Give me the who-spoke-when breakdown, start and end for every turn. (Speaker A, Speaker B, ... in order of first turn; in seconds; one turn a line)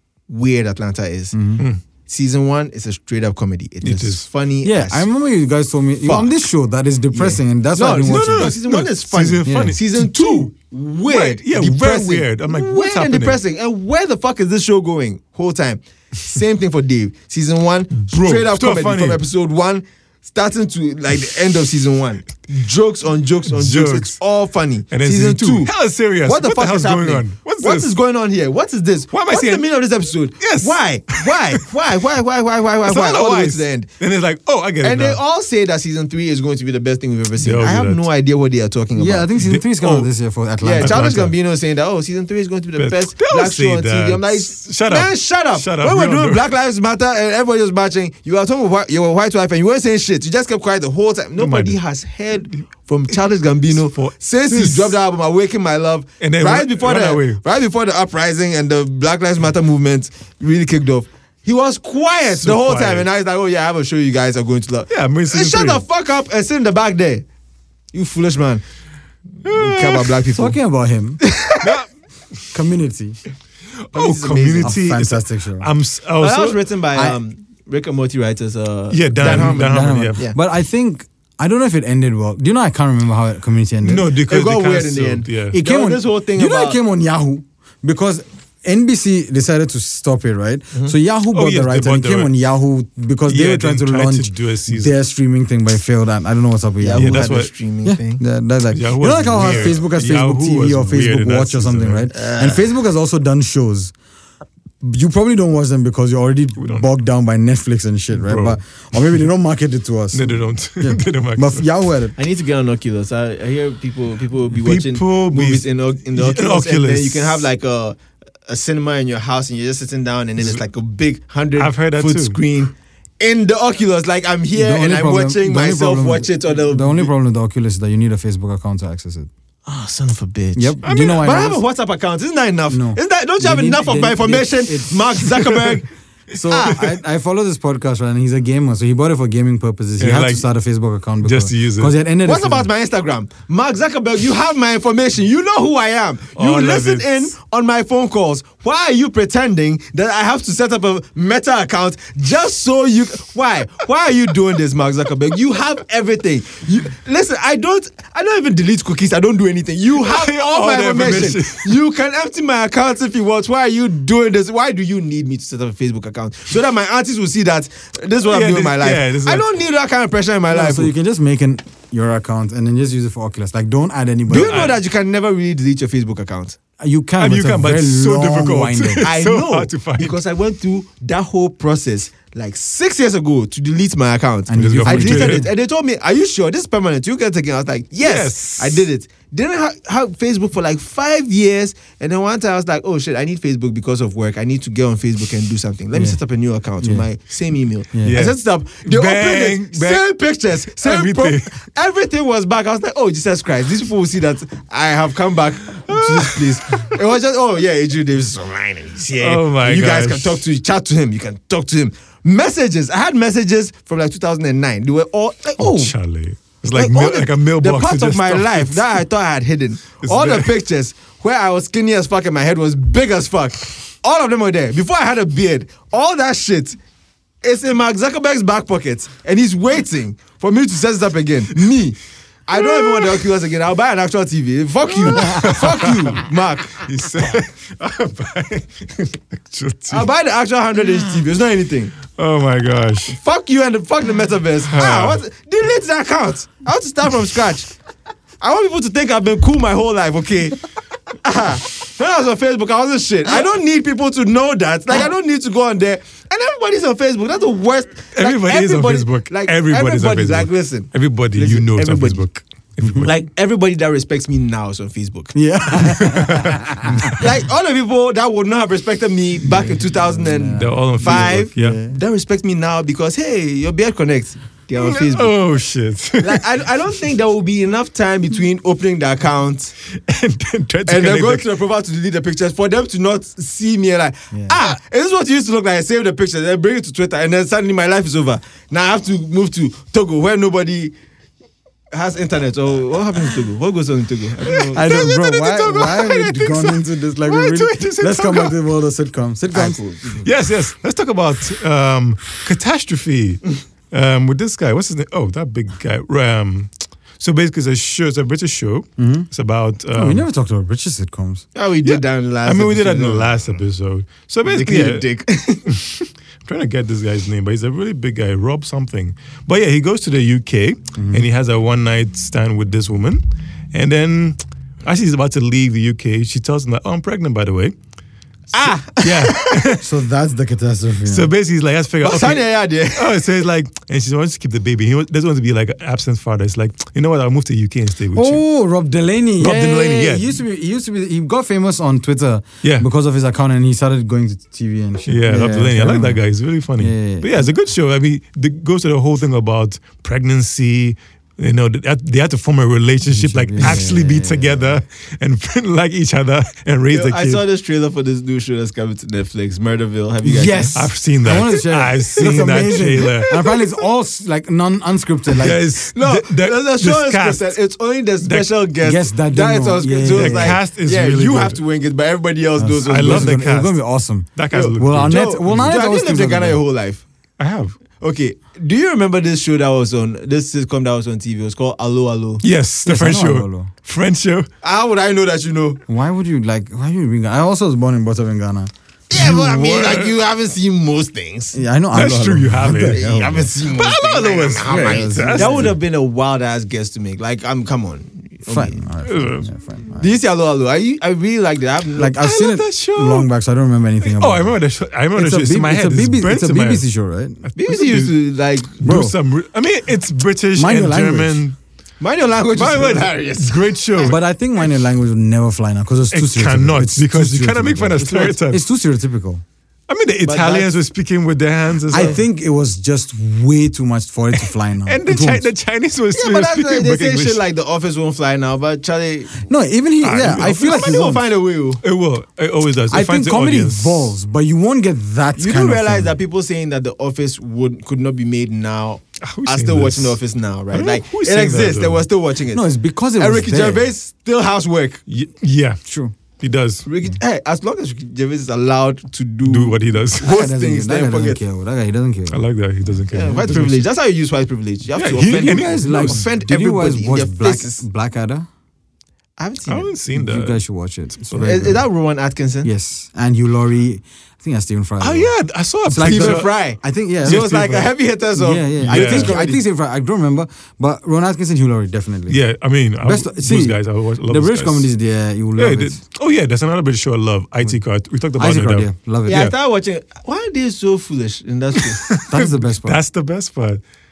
Speaker A: 0.3-1.4
Speaker B: 1.3-1.6
Speaker A: 2.0-5.1
Speaker C: 3.8-4.3
Speaker B: 4.6-8.6
Speaker A: 6.0-6.4
Speaker A: 7.1-33.9
Speaker C: 8.0-10.5
Speaker B: 9.4-9.8
Speaker C: 11.1-13.4
Speaker C: 18.1-19.2
Speaker C: 23.5-24.2
Speaker C: 24.9-27.9
Speaker C: 29.1-29.6
Speaker C: 30.4-31.6
Speaker C: 32.8-35.2
Speaker A: 34.8-39.3
Speaker C: 37.4-38.0
Speaker B: 39.0-41.2
Speaker C: 39.4-40.1
Speaker A: 40.6-67.2
Speaker C: 40.8-41.3
Speaker C: 42.8-46.5
Speaker C: 51.4-51.8
Speaker C: 53.7-55.0
Speaker C: 56.2-57.4
Speaker C: 62.4-63.1
Speaker C: 64.9-65.8
Speaker A: 67.9-68.6
Speaker A: 69.4-70.5
Speaker C: 69.5-70.2
Speaker B: 70.3-71.2
Speaker A: 71.2-71.7
Speaker C: 71.6-71.9
Speaker B: 72.5-73.2
Speaker C: 73.9-76.7
Speaker A: 73.9-74.7
Speaker B: 74.6-75.7
Speaker A: 76.2-80.4
Speaker B: 76.9-77.2
Speaker C: 78.9-80.2
Speaker B: 79.2-84.1
Speaker C: 83.8-85.6
Speaker A: 84.3-86.8
Speaker B: 85.5-97.3
Speaker C: 91.3-92.3
Speaker C: 93.3-95.0
Speaker A: 96.8-98.2
Speaker C: 97.0-97.5
Speaker B: 97.8-103.9
Speaker C: 98.7-102.1
Speaker A: 102.1-102.7
Speaker B: 104.8-112.2
Speaker C: 106.6-106.9
Speaker C: 108.1-109.1
Speaker C: 110.1-111.7
Speaker A: 112.2-127.1
Speaker C: 114.5-117.5
Speaker C: 121.6-122.4
Speaker B: 124.5-129.3
Speaker A: 129.7-135.9
Speaker B: 130.6-131.6
Speaker C: 130.8-131.5
Speaker B: 132.7-135.3
Speaker C: 135.5-135.8
Speaker B: 136.3-142.7
Speaker A: 136.5-136.9
Speaker C: 140.0-140.4
Speaker C: 141.2-141.9
Speaker A: 142.2-170.9
Speaker C: 146.4-147.3
Speaker C: 160.0-161.8
Speaker C: 168.2-169.4
Speaker B: 170.5-174.7
Speaker A: 174.3-176.6
Speaker C: 174.3-174.8
Speaker B: 176.8-179.1
Speaker C: 177.2-180.2
Speaker A: 179.0-215.9
Speaker B: 184.5-185.5
Speaker C: 184.6-185.5
Speaker C: 188.0-188.9
Speaker B: 196.8-197.1
Speaker B: 197.9-198.2
Speaker C: 198.1-201.6
Speaker C: 205.9-206.9
Speaker C: 209.2-210.4
Speaker C: 215.6-218.9
Speaker A: 216.7-226.8
Speaker C: 220.0-220.5
Speaker A: 227.4-236.8
Speaker C: 232.6-233.2
Speaker C: 234.9-240.1
Speaker A: 239.9-241.9
Speaker C: 240.9-241.2
Speaker C: 242.1-243.2
Speaker A: 243.1-247.7
Speaker C: 244.6-245.2
Speaker A: 248.4-250.6
Speaker A: 251.2-262.2
Speaker C: 258.1-263.2
Speaker A: 263.0-265.4
Speaker B: 265.4-267.1
Speaker C: 265.8-267.2
Speaker A: 267.1-275.4
Speaker B: 270.1-271.9
Speaker C: 270.5-271.8
Speaker C: 274.8-276.4
Speaker A: 276.2-279.7
Speaker C: 279.9-281.5
Speaker A: 280.9-290.9
Speaker B: 284.3-284.6
Speaker A: 291.9-294.9
Speaker C: 294.4-298.6
Speaker B: 294.7-299.8
Speaker A: 299.5-300.3
Speaker C: 300.2-310.2
Speaker B: 309.0-309.3
Speaker B: 309.9-311.4
Speaker A: 311.6-313.3
Speaker C: 311.8-315.1
Speaker A: 314.4-315.7
Speaker C: 315.7-327.7
Speaker B: 321.0-321.3
Speaker A: 328.5-329.7
Speaker C: 328.6-329.9
Speaker B: 329.8-331.3
Speaker C: 331.1-338.4
Speaker A: 332.0-333.3
Speaker B: 338.1-346.2
Speaker C: 339.4-340.4
Speaker C: 345.1-357.4
Speaker B: 346.8-347.5
Speaker B: 353.1-354.8
Speaker A: 356.9-360.8
Speaker B: 360.2-365.6
Speaker C: 360.7-363.6
Speaker A: 363.2-363.6
Speaker C: 365.4-367.6
Speaker A: 365.6-373.4
Speaker C: 368.2-368.6
Speaker B: 368.8-370.6
Speaker C: 370.0-371.6
Speaker B: 372.6-376.6
Speaker C: 372.8-373.8
Speaker C: 374.4-375.7
Speaker A: 374.5-377.0
Speaker C: 377.4-377.8
Speaker A: 378.0-382.4
Speaker C: 382.4-384.5
Speaker B: 382.9-383.7
Speaker A: 384.6-385.8
Speaker B: 385.9-389.3
Speaker A: 389.1-391.6
Speaker C: 389.1-390.1
Speaker B: 391.5-393.5
Speaker C: 391.9-393.0
Speaker A: 392.8-398.9
Speaker C: 393.6-395.8
Speaker B: 394.7-395.8
Speaker B: 398.4-400.1
Speaker C: 399.0-399.4
Speaker A: 400.0-402.2
Speaker B: 402.0-404.6
Speaker C: 402.1-403.3
Speaker C: 404.0-406.9
Speaker B: 405.1-407.4
Speaker C: 407.4-408.2
Speaker A: 407.6-408.8
Speaker C: 408.7-411.6
Speaker B: 408.8-409.1
Speaker B: 410.6-411.4
Speaker A: 412.0-414.1
Speaker C: 412.6-414.2
Speaker B: 414.0-419.4
Speaker C: 416.1-418.6
Speaker A: 418.0-418.3
Speaker C: 419.9-422.2
Speaker A: 420.3-420.8
Speaker B: 421.9-425.5
Speaker C: 424.3-427.4
Speaker A: 426.1-429.4
Speaker B: 429.4-431.2
Speaker C: 430.0-430.8
Speaker A: 430.2-431.8
Speaker C: 431.8-434.1
Speaker B: 432.9-436.1
Speaker A: 435.4-442.6
Speaker C: 439.2-440.2
Speaker C: 440.7-442.1
Speaker B: 442.5-443.9
Speaker A: 443.2-445.0
Speaker C: 445.1-445.8
Speaker B: 445.9-446.1
Speaker C: 446.4-446.9
Speaker A: 446.9-451.4
Speaker C: 449.4-450.4
Speaker B: 450.2-453.0
Speaker C: 452.3-453.8
Speaker A: 453.1-457.8
Speaker C: 454.9-456.3
Speaker B: 455.3-458.4
Speaker A: 459.4-459.9
Speaker C: 459.7-460.6
Speaker B: 460.1-461.8
Speaker C: 461.2-461.8
Speaker A: 461.4-462.7
Speaker B: 462.6-465.3
Speaker C: 465.0-466.6
Speaker B: 465.9-467.5
Speaker A: 466.0-469.6
Speaker C: 467.2-467.9
Speaker B: 468.4-472.4
Speaker C: 468.8-469.4
Speaker C: 472.3-474.9
Speaker B: 473.0-476.0
Speaker C: 475.6-479.5
Speaker B: 478.4-479.4
Speaker A: 479.3-482.2
Speaker C: 482.1-483.8
Speaker B: 482.3-483.0